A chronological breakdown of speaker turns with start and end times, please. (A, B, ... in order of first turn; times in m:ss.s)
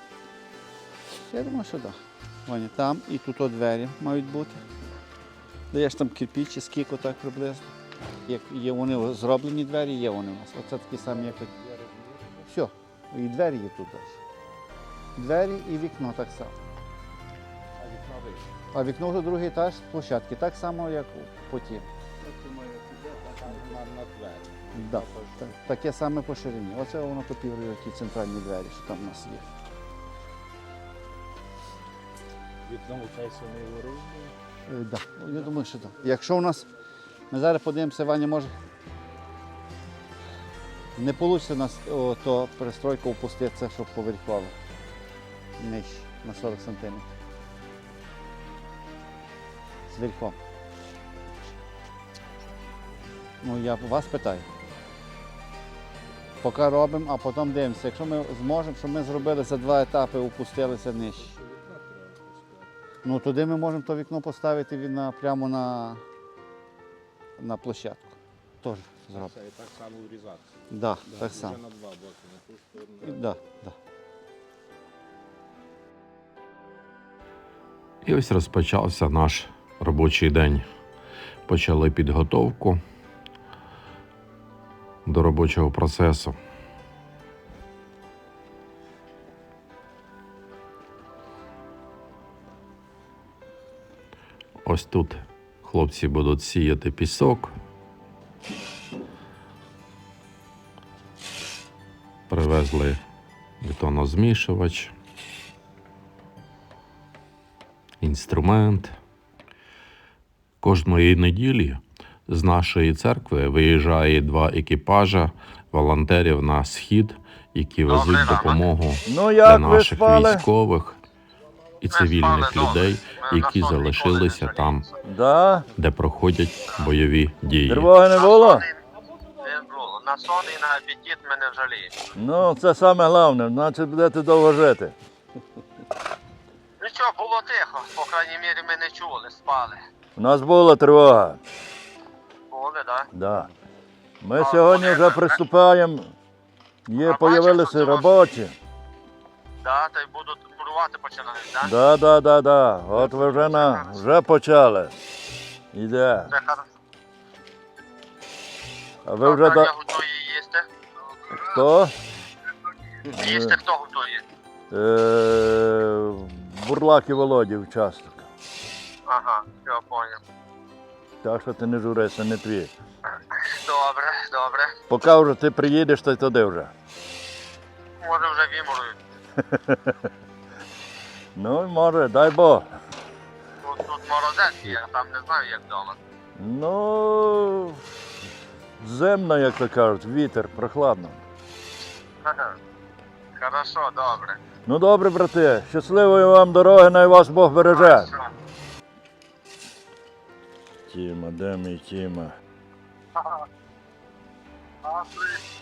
0:01.3-0:04.6 A
0:05.7-0:07.7 A
0:08.3-0:11.5 A
0:11.1-0:12.4 B
0:12.5-0:14.2 A
0:15.2-0:16.5 A
0:17.8-0:18.5 B
0:18.7-0:21.9 A
0:22.3-0:25.2 B
0:24.7-0:29.4 A
0:32.7-0:34.3 B
0:34.7-0:36.7 A
0:37.3-0:38.5 A
0:41.0-0:44.5 A
0:45.6-0:47.1 A
0:49.9-0:50.4 A
0:53.4-0:54.4 A
0:56.4-1:01.3 A
1:01.3-1:02.7 B
1:03.0-1:06.0 A
1:07.4-1:09.3 A
1:09.2-1:10.5 B
1:10.7-1:11.6 A
1:11.1-1:13.2 B
1:13.0-1:13.8 A
1:18.0-1:20.6 C
1:21.5-1:22.8 C
1:25.1-1:26.4 C
1:34.6-1:37.5 C
1:42.3-1:43.0 C
1:43.6-1:44.9 C
1:48.0-1:48.9 C
1:50.6-2:01.0 C
1:57.9-1:58.6 D
1:59.1-2:00.5 E
2:01.8-2:04.9 C
2:01.9-2:04.8 D
2:05.0-2:05.7 E
2:05.8-2:07.9 C
2:07.7-2:08.7 E
2:08.1-2:08.7 D
2:09.4-2:12.0 D
2:12.2-2:15.0 E
2:16.8-2:19.8 D
2:20.2-2:21.4 E
2:22.5-2:23.1 D
2:23.1-2:23.5 E
2:24.2-2:26.1 E
2:24.4-2:25.4 D
2:26.9-2:28.5 E
2:27.0-2:28.2 D
2:29.6-2:31.7 D
2:31.6-2:35.0 E
2:33.3-2:34.0 D
2:35.7-2:36.3 E
2:36.3-2:36.6 D
2:39.0-2:39.7 E
2:39.2-2:40.7 D
2:41.3-2:42.0 E
2:43.0-2:44.2 D
2:43.1-2:43.6 E
2:44.7-2:48.3 E
2:49.1-2:50.2 D
2:51.2-2:52.7 E
2:53.4-2:54.7 D
2:54.9-2:56.7 E
2:58.0-2:59.0 D
2:59.4-2:59.9 E
3:01.4-3:02.7 E
3:03.6-3:06.0 D
3:06.4-3:07.8 E
3:08.8-3:11.2 E
3:12.2-3:12.6 D
3:13.4-3:14.4 D
3:14.7-3:18.1 E
3:20.9-3:22.3 E
3:24.8-3:25.4 D